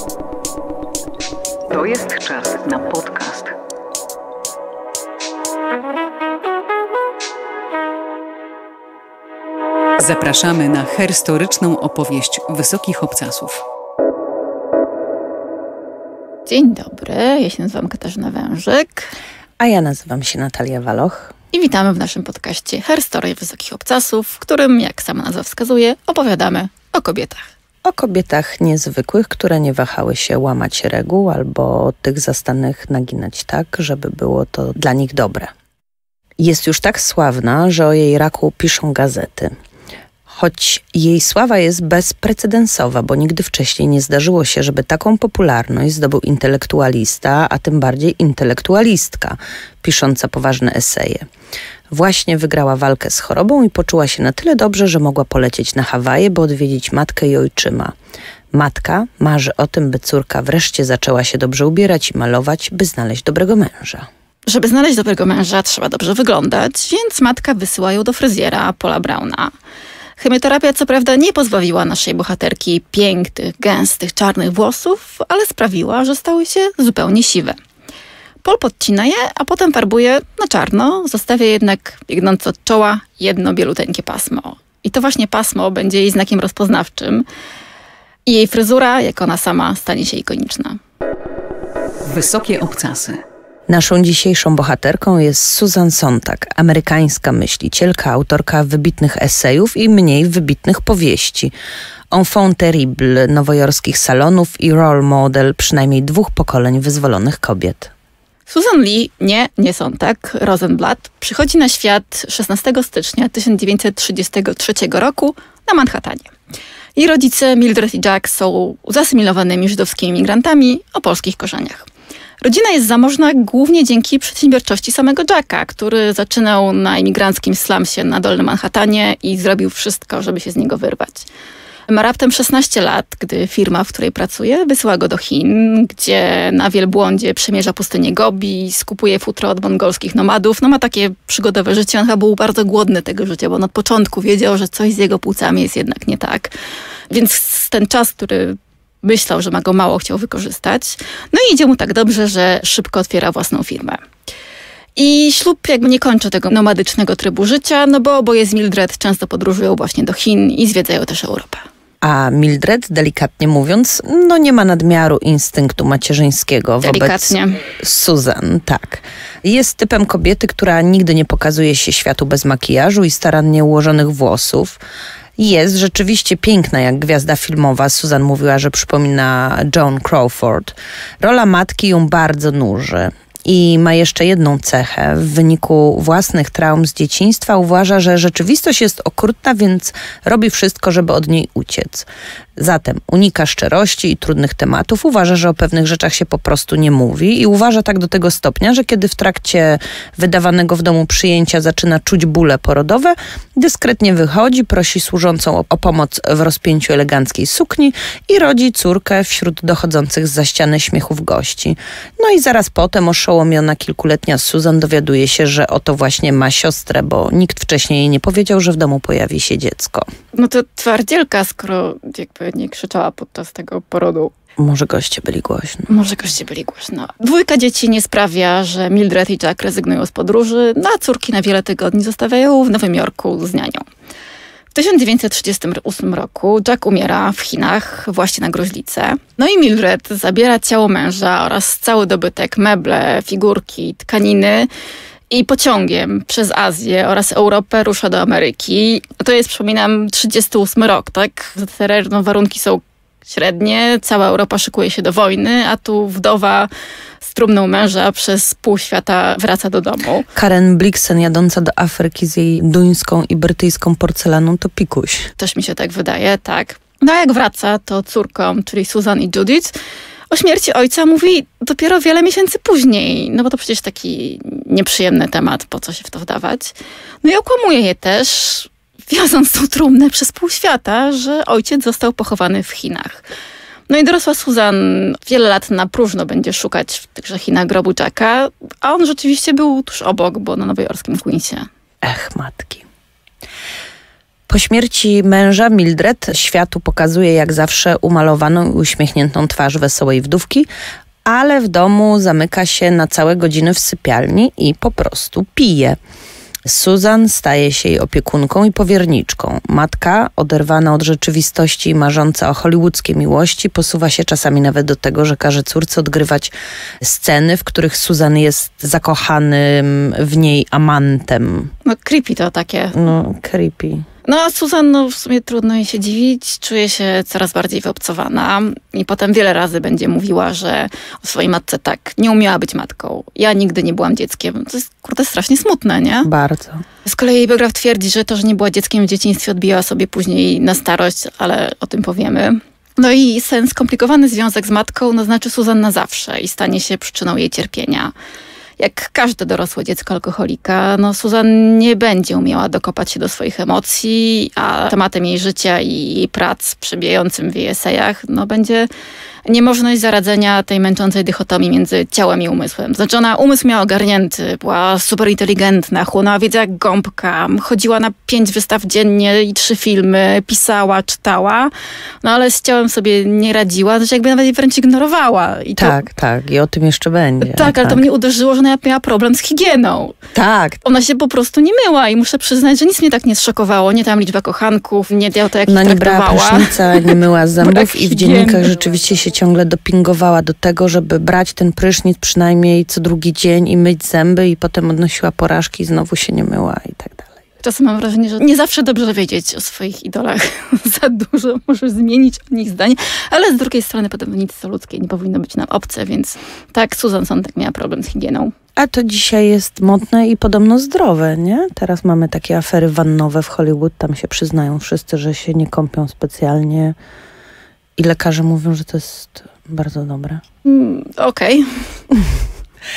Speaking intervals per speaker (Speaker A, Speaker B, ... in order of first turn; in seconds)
Speaker A: 1.7-3.5, 10.0-13.6, 92.0-93.2
Speaker B: 16.4-19.1, 21.5-27.4, 64.5-69.5, 70.2-77.6, 78.4-87.2, 88.2-90.8, 108.5-116.3, 117.0-121.8, 122.4-131.3, 131.9-146.5, 147.1-154.0, 154.9-161.6, 166.8-167.6, 220.3-224.3, 225.9-233.8, 234.7-244.7, 245.3-256.7, 257.2-260.3, 265.4-269.7, 270.3-283.2, 283.9-291.7, 321.8-323.0, 324.2-336.3, 337.0-348.1, 348.8-358.9, 359.4-371.7, 372.2-376.0, 377.4-380.2, 380.8-388.7, 397.6-408.5, 420.6-421.8
Speaker C: 19.6-21.3, 27.8-35.5, 36.4-39.5, 40.3-51.3, 51.9-57.9, 58.5-64.1, 93.7-101.5, 102.1-107.9, 162.0-174.8, 175.4-220.1, 224.6-225.9, 260.3-265.3, 292.0-292.8, 294.5-300.7, 301.2-306.0, 306.6-321.7, 322.9-324.1, 336.2-336.8, 375.8-378.0, 380.3-380.8, 385.7-397.3, 408.8-416.9, 418.0-420.4